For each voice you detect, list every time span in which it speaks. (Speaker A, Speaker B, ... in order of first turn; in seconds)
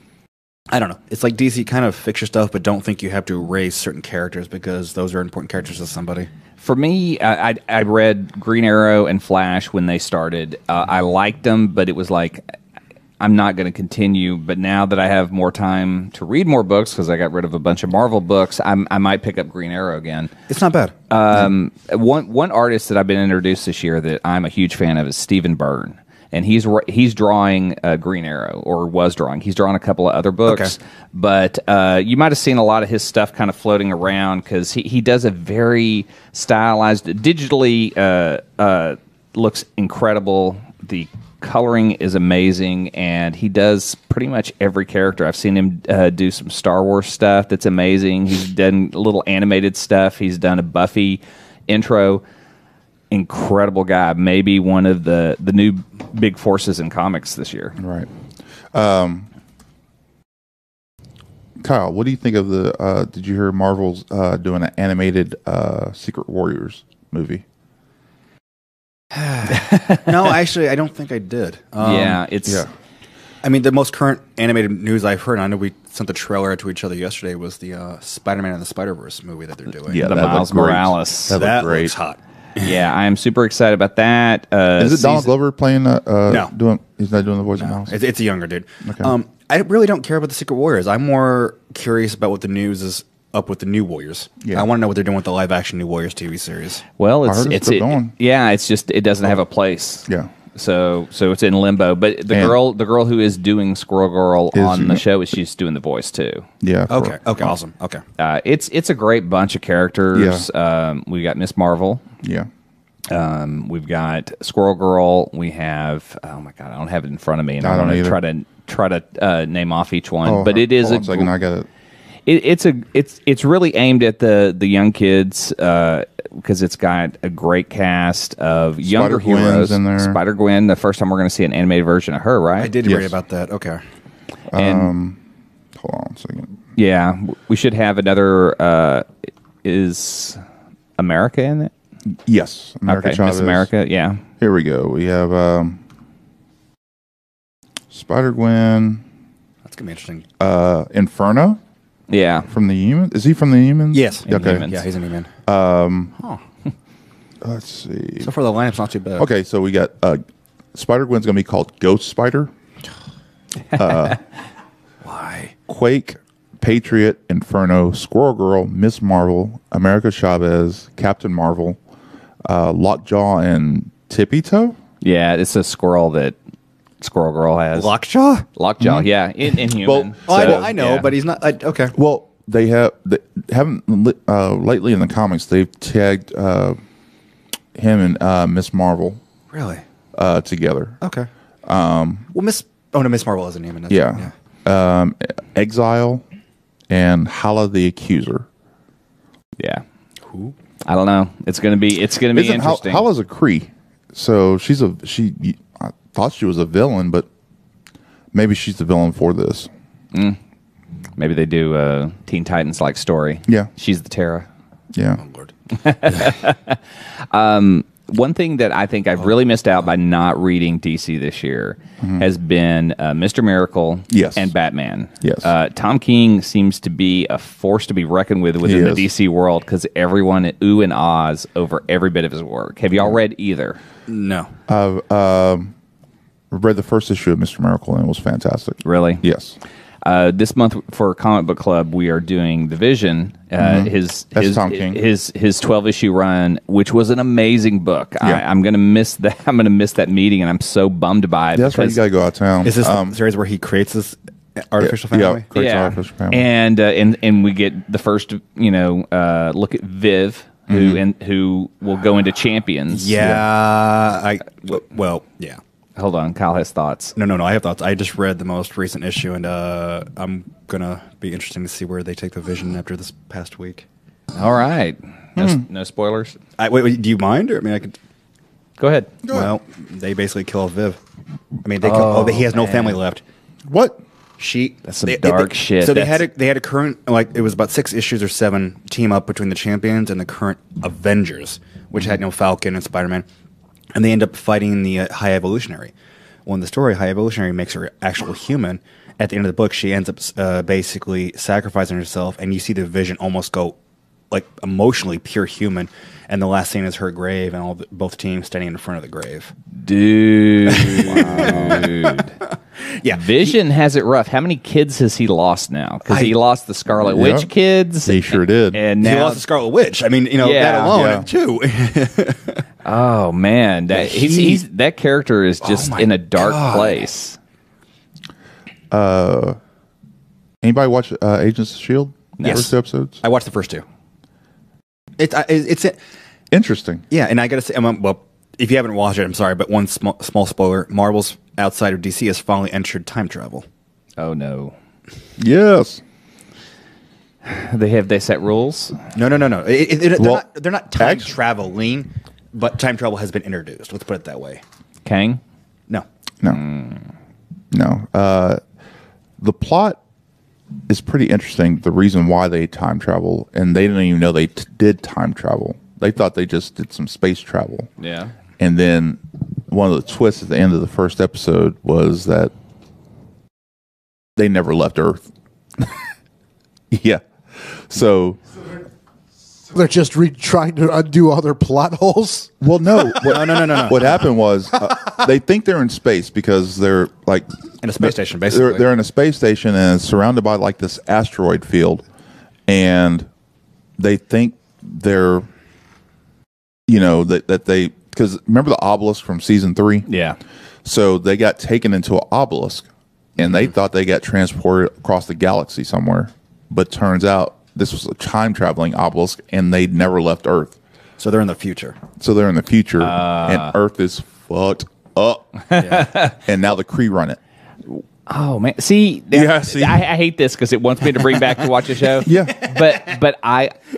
Speaker A: 0.7-6.3, 20.5-20.9, 30.5-30.7, 69.1-72.2, 73.4-80.0, 81.3-82.7, 87.6-96.8, 106.9-108.0, 132.6-133.8, 149.7-150.3, 153.9-155.3, 158.2-159.3, 165.0-165.5, 177.8-178.5, 180.3-181.9, 189.5-189.8, 191.0-191.3, 192.3-194.3, 200.2-200.5, 215.2-215.5, 234.1-234.5, 252.6-255.4, 262.9-265.6, 267.2-273.9, 276.6-278.0, 279.3-281.0, 281.6-283.2, 284.4-293.3, 293.9-295.9, 296.5-303.8, 304.3-309.5, 310.7-312.2, 312.8-313.6, 316.1-316.4, 319.0-322.6, 323.9-324.6, 325.6-327.0, 332.4-333.8, 335.2-336.0, 337.1-343.7, 349.1-354.6, 383.2-384.2, 387.8-388.9, 411.2-412.0, 415.8-416.1
Speaker B: 6.6-12.4, 13.2-20.3, 21.1-52.2, 53.1-57.8, 69.5-70.1, 71.8-72.7, 80.0-81.4, 82.6-85.3, 97.0-106.5, 108.2-112.0, 113.1-121.3, 122.3-132.7, 134.6-134.9, 136.8-139.1, 139.6-140.4, 141.0-141.7, 142.9-144.2, 152.1-152.5, 154.3-154.8, 175.0-176.4, 177.0-177.9, 178.6-181.1, 199.6-199.8, 200.8-203.1, 210.1-210.4, 211.2-214.5, 215.7-233.8, 238.8-239.2, 240.0-252.0, 255.5-263.2, 266.0-267.2, 274.4-276.4, 278.8-279.1, 281.8-283.0, 284.9-286.2, 309.7-312.4, 313.1-319.4, 320.4-321.0, 322.9-327.4, 344.2-344.7, 347.4-349.0, 355.1-355.4, 356.5-357.0, 368.0-368.3, 400.1-400.4, 413.0-413.8, 415.9-416.4, 417.9-423.8
Speaker C: 57.8-58.1, 58.7-59.3, 61.6-67.4, 79.9-81.9, 84.8-88.0, 88.8-89.1, 97.2-98.2, 102.3-102.6, 104.5-105.0, 106.6-107.5, 110.1-110.5, 112.2-112.5, 117.6-118.2, 120.2-121.7, 128.8-130.2, 132.8-133.2, 134.5-135.2, 135.8-136.6, 142.2-143.7, 144.4-145.8, 147.9-149.0, 150.4-151.6, 152.5-154.7, 155.5-156.1, 157.4-158.3, 159.2-160.2, 160.7-162.5, 163.7-164.2, 165.7-171.8, 172.4-174.8, 178.8-179.1, 179.7-180.7, 181.9-186.8, 187.8-189.2, 190.2-191.0, 191.7-192.3, 193.9-196.2, 196.9-198.5, 202.3-207.3, 208.3-209.7, 214.9-215.2, 224.1-224.5, 225.2-225.5, 228.6-229.1, 234.7-235.7, 236.5-239.6, 243.6-245.0, 251.6-253.2, 254.8-256.4, 260.7-261.0, 263.2-263.4, 279.2-279.5, 283.7-284.0, 311.2-311.8, 317.0-317.5, 318.1-318.8, 320.9-321.3, 328.9-329.6, 330.6-333.2, 336.5-337.0, 345.4-346.0, 350.2-350.4, 351.0-351.3, 357.7-358.6, 359.4-360.0, 360.9-367.9, 368.6-372.5, 374.4-375.2, 376.9-378.4, 382.6-387.5, 388.0-392.0, 392.7-393.3, 394.0-395.5, 396.9-400.1, 400.9-410.7, 412.2-417.4, 419.3-420.1, 422.2-422.7
Speaker D: 379.7-382.5